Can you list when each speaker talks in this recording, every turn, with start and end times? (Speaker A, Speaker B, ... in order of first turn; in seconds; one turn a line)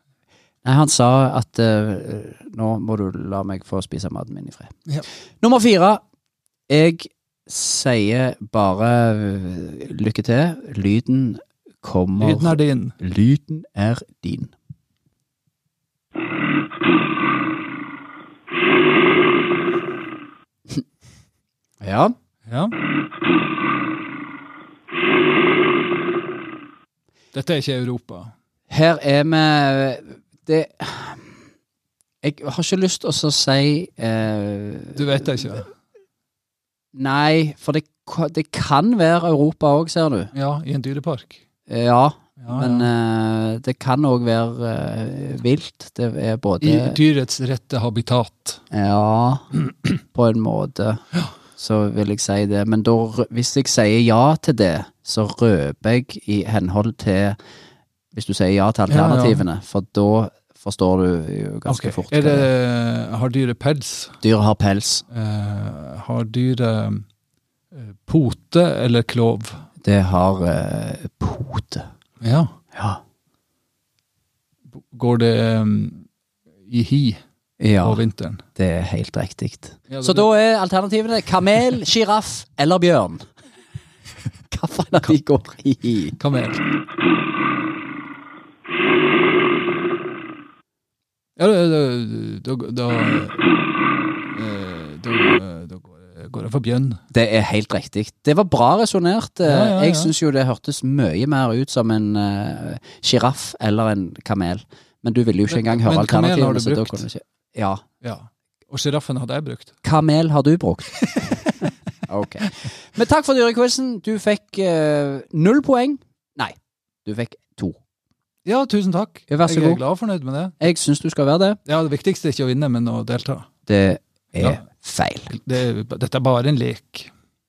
Speaker A: 0.7-4.8
Speaker A: 5.4-6.0
Speaker A: 6.7-14.5
Speaker B: 12.2-13.0
Speaker A: 21.8-22.1
Speaker B: 22.4-22.7
Speaker B: 27.3-28.3
Speaker A: 28.7-31.3
Speaker A: 32.2-35.5
Speaker B: 35.0-35.7
Speaker A: 36.9-40.3
Speaker B: 40.3-41.4
Speaker A: 41.7-47.0
Speaker B: 42.4-42.9
Speaker B: 46.6-48.6
Speaker A: 48.7-51.0
Speaker A: 51.5-57.4
Speaker A: 58.1-62.5
Speaker B: 58.9-59.4
Speaker B: 61.7-64.2
Speaker A: 64.2-65.0
Speaker B: 65.1-67.0
Speaker B: 67.7-69.6
Speaker A: 69.8-71.9
Speaker B: 72.2-72.5
Speaker A: 72.8-73.0
Speaker B: 74.7-76.1
Speaker B: 76.7-77.2
Speaker A: 77.6-78.0
Speaker B: 77.8-78.4
Speaker A: 78.5-83.2
Speaker B: 79.9-80.3
Speaker A: 84.5-86.2
Speaker B: 86.2-86.7
Speaker B: 91.4-93.5
Speaker B: 94.2-97.0
Speaker A: 97.1-107.8
Speaker B: 99.5-100.1
Speaker B: 105.5-107.1
Speaker B: 108.0-109.7
Speaker A: 109.8-111.2
Speaker A: 112.1-117.8
Speaker B: 118.5-120.6
Speaker A: 119.3-119.8
Speaker A: 120.6-121.6
Speaker B: 121.7-123.5
Speaker A: 123.7-125.3
Speaker B: 125.3-127.1